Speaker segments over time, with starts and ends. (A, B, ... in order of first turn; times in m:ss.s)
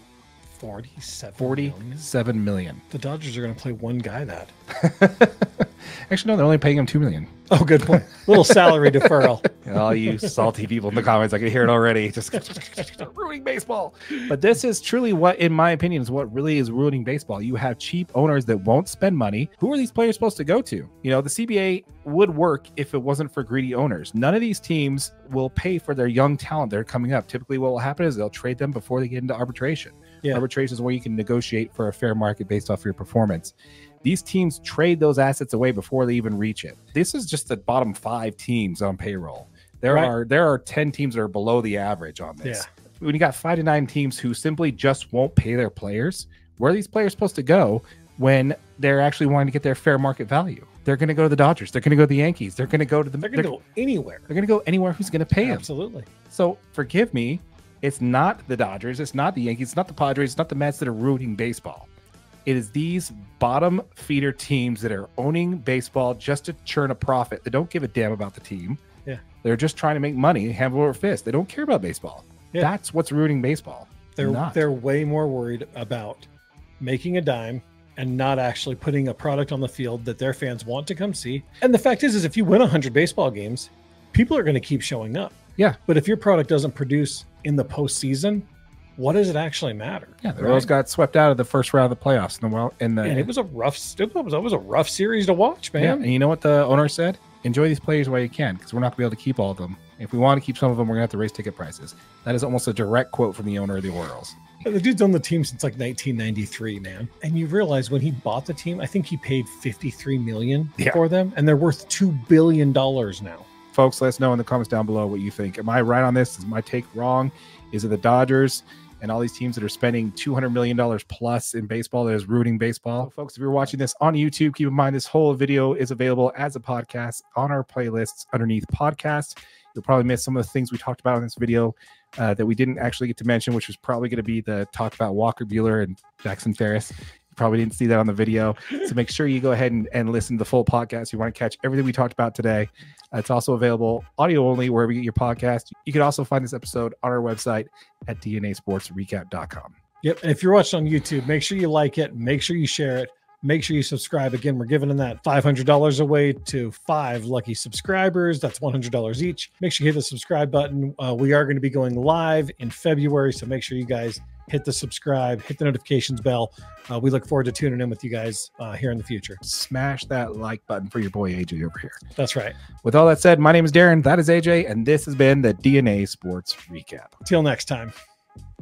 0:00.5-0:02.0 A
0:01.4-0:02.8 B
0:02.9-0:04.5 A
0:04.7-0:07.3 B
0:07.5-0:09.5 A
0:08.1-0:08.6 B
0:09.5-0:53.5 B
0:39.9-0:40.1 A
0:53.2-0:54.3 A
0:54.3-0:55.7 B
0:55.4-0:56.1 A
0:56.3-1:01.9 B
1:02.4-1:08.8 B
1:09.4-1:14.6 B
1:14.2-1:16.3 A
1:16.8-1:30.7 A
1:30.2-1:33.3 B
1:33.0-1:36.0 A
1:35.8-1:44.5 B
1:44.6-1:53.4 A
1:53.7-2:29.8 B
2:30.0-2:49.4 A
2:49.4-2:52.0 B
2:52.2-2:52.6 A
2:52.8-2:57.1 B
2:57.2-2:57.9 A